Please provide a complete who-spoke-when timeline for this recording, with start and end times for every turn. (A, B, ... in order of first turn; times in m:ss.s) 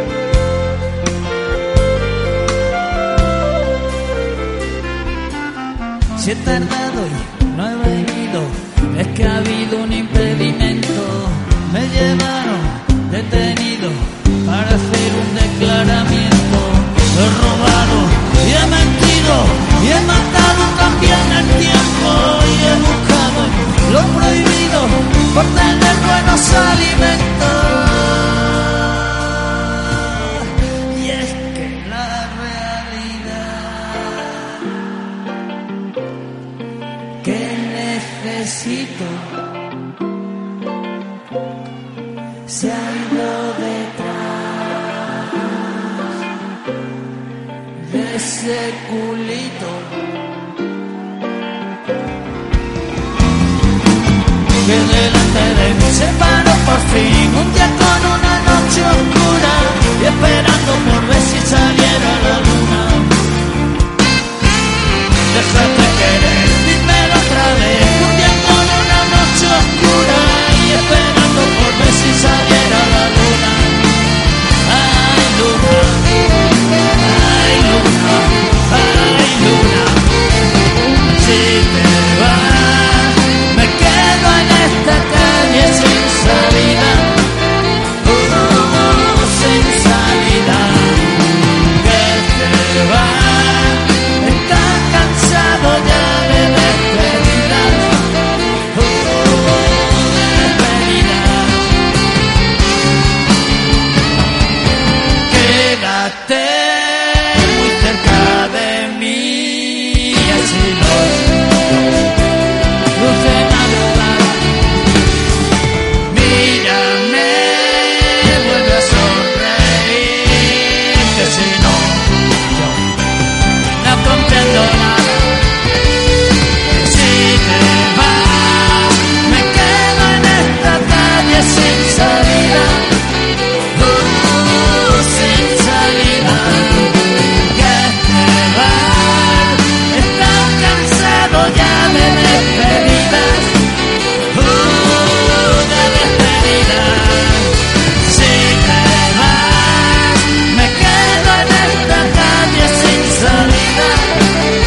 0:06.2-0:34.6 A
0:37.2-0:39.3 A
0:42.5-0:45.2 A
0:47.8-0:50.0 A
0:54.6-1:03.2 A
1:05.3-1:13.9 A
1:14.6-1:20.1 A
1:21.0-1:27.2 A
1:28.0-1:38.1 A
1:38.7-1:41.8 A
1:45.3-1:51.4 A
1:53.0-1:54.6 A
1:56.1-2:02.8 A
2:03.8-2:05.5 A
2:06.7-2:12.9 A
2:13.7-2:23.6 A
2:24.3-2:34.3 A